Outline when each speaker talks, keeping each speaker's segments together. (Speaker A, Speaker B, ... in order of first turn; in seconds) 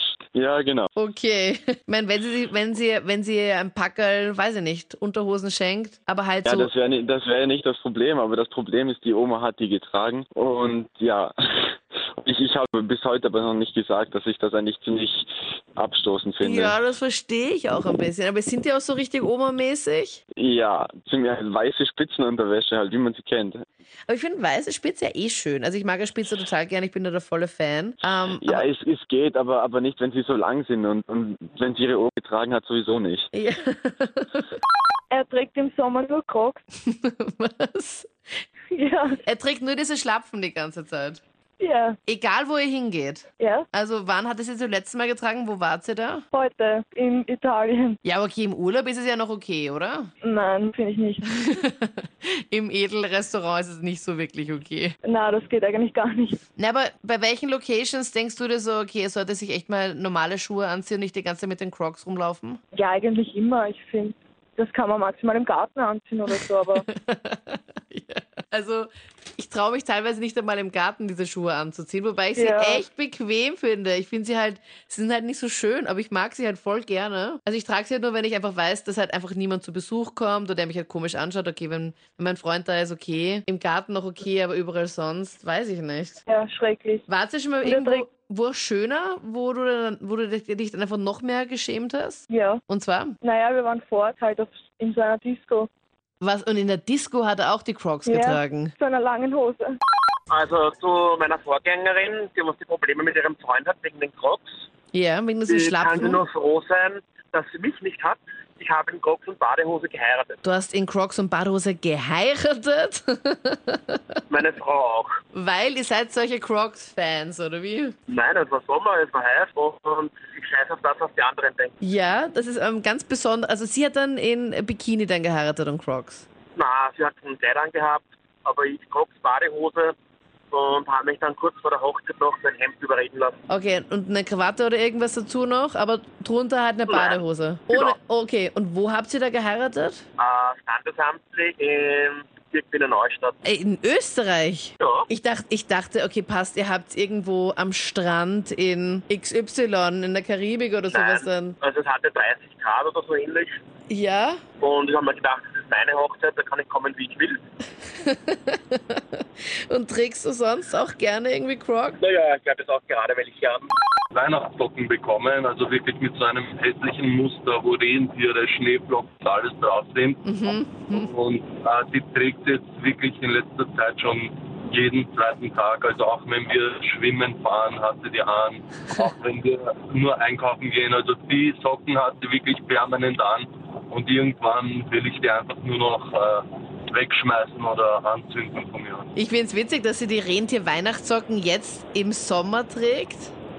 Speaker A: 0.3-0.9, 6.5-16.8, 20.4-23.6, 28.4-33.3
Speaker B: 1.0-6.7, 16.4-20.2, 24.1-28.6, 33.3-34.5, 36.9-38.1, 39.2-41.2, 42.1-46.2, 48.0-50.1, 51.4-55.0, 56.6-62.6, 66.9-86.2, 87.1-93.2, 96.2-98.7, 104.9-106.2, 110.4-114.0, 115.3-118.0, 121.8-126.3, 133.5-140.0, 143.4-151.6, 153.9-154.4, 158.0-159.0, 159.7-162.0, 170.2-171.1, 189.2-193.3
Speaker C: 35.1-36.6, 38.7-39.2, 41.6-42.0, 43.4-43.7, 46.3-48.0, 50.2-51.3, 55.0-56.4, 62.7-66.8, 72.4-72.8, 86.3-87.1, 87.6-88.1, 92.3-92.6, 93.2-95.7, 98.1-99.8
Speaker D: 100.3-104.6, 105.5-110.4, 114.3-115.2, 118.1-121.8, 126.5-130.0, 130.5-133.4, 136.9-137.9, 140.2-143.4, 144.8-145.1, 150.9-153.6, 154.6-157.4, 162.0-163.7
Speaker E: 164.1-170.2, 170.9-189.1